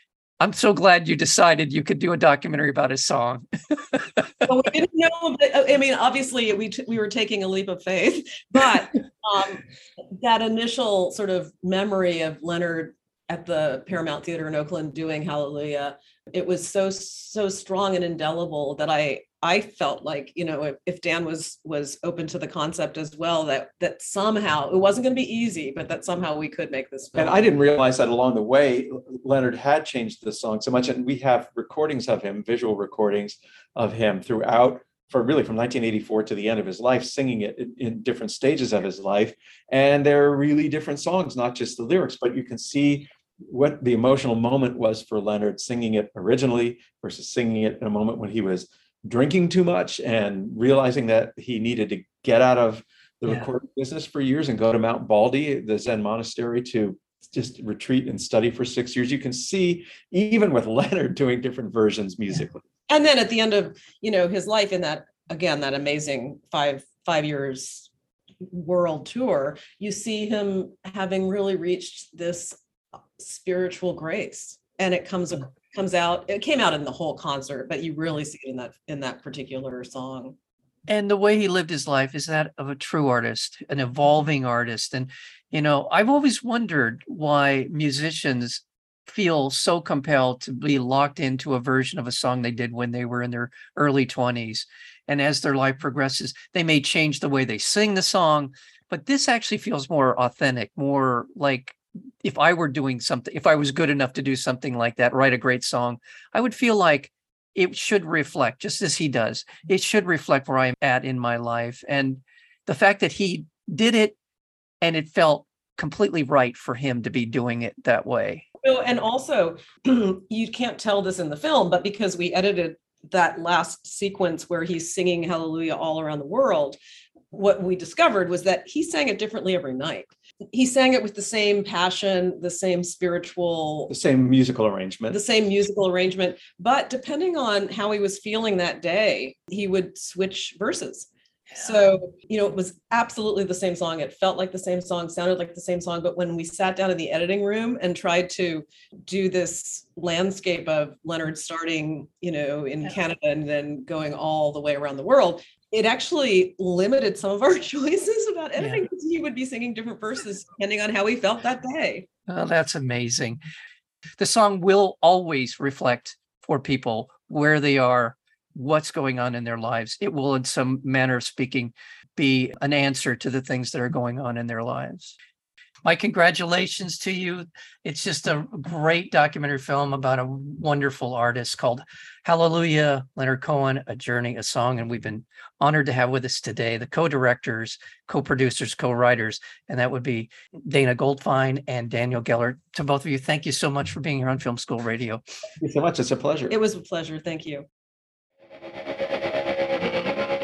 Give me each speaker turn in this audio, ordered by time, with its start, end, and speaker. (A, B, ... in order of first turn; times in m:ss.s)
0:00.4-0:04.2 A
0:04.5-0:27.5 B
0:27.2-1:02.6 C
1:02.9-1:07.9 B
1:08.5-1:12.6 B
1:13.2-1:20.4 B
1:20.9-1:54.2 A
1:54.8-1:58.5 A
1:58.6-2:06.8 B
2:07.3-2:13.9 B
2:13.9-2:15.2 C
2:15.1-2:42.1 B
2:38.6-2:38.8 A
2:42.3-2:43.4 A
2:44.2-2:55.2 A
2:55.8-3:15.2 A
3:15.6-3:16.6 C
3:16.5-3:17.6 B